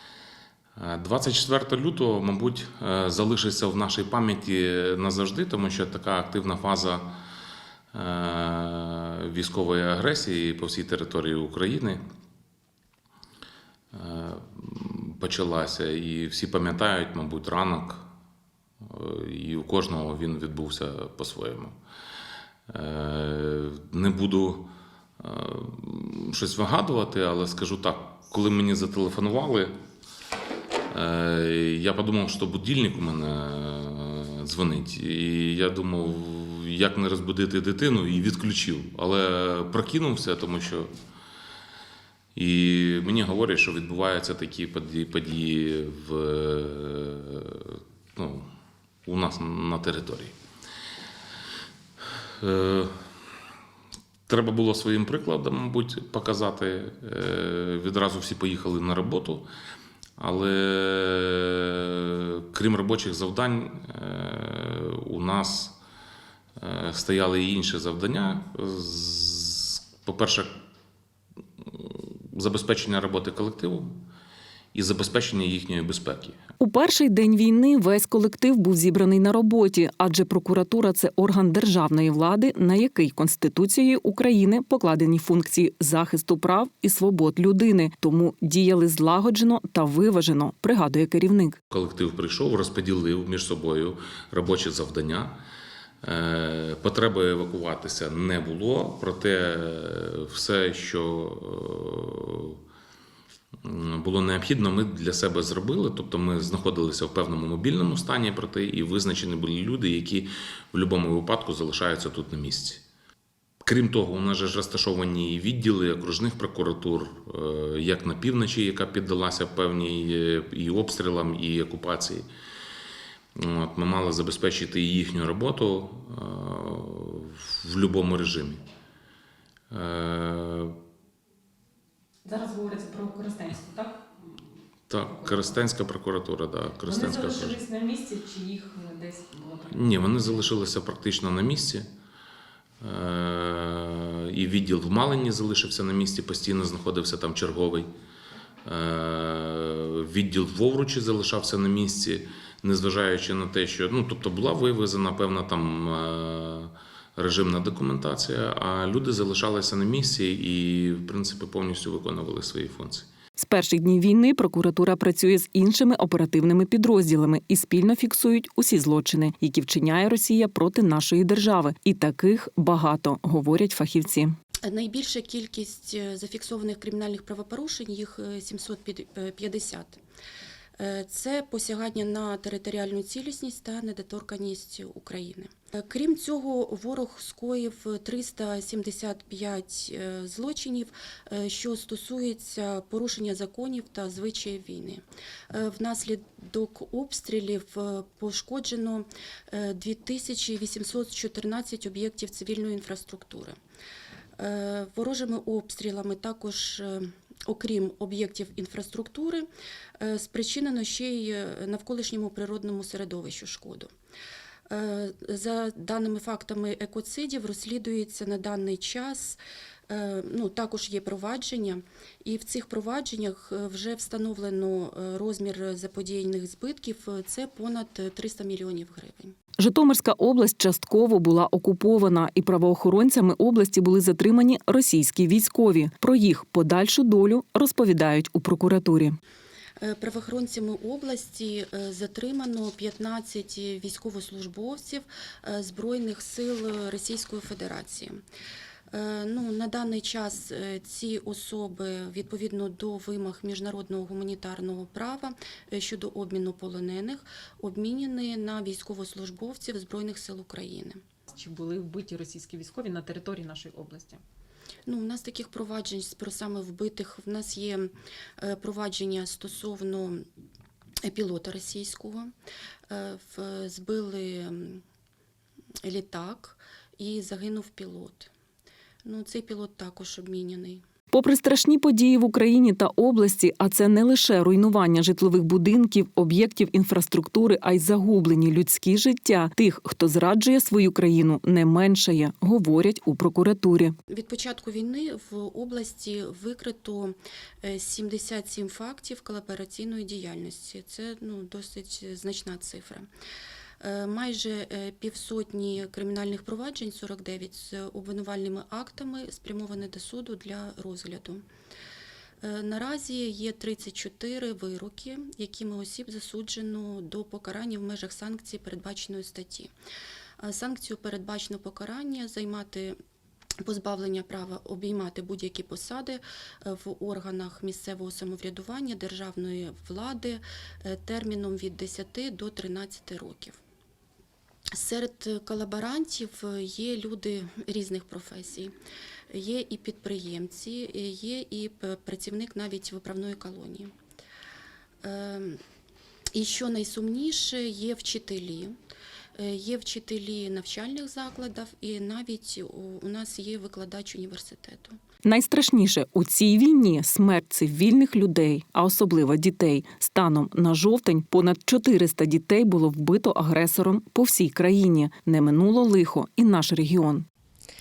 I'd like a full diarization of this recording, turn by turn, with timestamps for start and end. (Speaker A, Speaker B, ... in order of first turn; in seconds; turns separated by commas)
Speaker A: 0.8-7.1, Speaker A: 7.9-12.0, Speaker A: 13.9-18.0, Speaker A: 18.8-21.8, Speaker A: 22.7-24.7, Speaker A: 25.2-29.7, Speaker A: 30.9-40.9, Speaker A: 42.4-48.5, Speaker A: 49.1-50.3, Speaker A: 52.4-52.9, Speaker A: 54.3-59.5, Speaker A: 60.2-65.8, Speaker A: 66.6-70.5, Speaker A: 71.6-73.9, Speaker A: 74.7-76.4, Speaker B: 76.6-91.6, Speaker A: 91.7-95.4, Speaker A: 96.0-102.6, Speaker A: 103.6-112.8, Speaker A: 113.6-122.2, Speaker A: 123.4-128.6, Speaker A: 129.7-130.7, Speaker C: 132.2-133.9, Speaker B: 132.6-133.2, Speaker A: 134.9-137.7, Speaker C: 136.9-139.8, Speaker A: 139.7-141.9, Speaker A: 142.8-147.9, Speaker A: 148.6-163.1, Speaker B: 163.4-174.3, Speaker D: 174.7-180.0, Speaker D: 180.8-203.6, Speaker D: 204.4-209.5, Speaker D: 210.0-213.9, Speaker D: 214.7-229.3, Speaker B: 229.6-239.2, Speaker D: 239.8-248.2, Speaker D: 248.9-261.0, Speaker C: 261.4-264.2, Speaker D: 264.9-270.2, Speaker D: 271.1-272.3, Speaker D: 272.9-274.8, Speaker D: 275.8-278.3, Speaker D: 279.0-280.8, Speaker B: 281.1-294.0, Speaker D: 294.1-303.1, Speaker D: 303.8-311.4, Speaker D: 312.4-319.7, Speaker D: 320.4-323.0, Speaker D: 323.6-333.6, Speaker D: 334.8-338.8, Speaker D: 339.3-343.9, Speaker D: 345.0-345.6, Speaker D: 346.3-348.8, Speaker D: 349.4-355.0, Speaker B: 355.2-367.2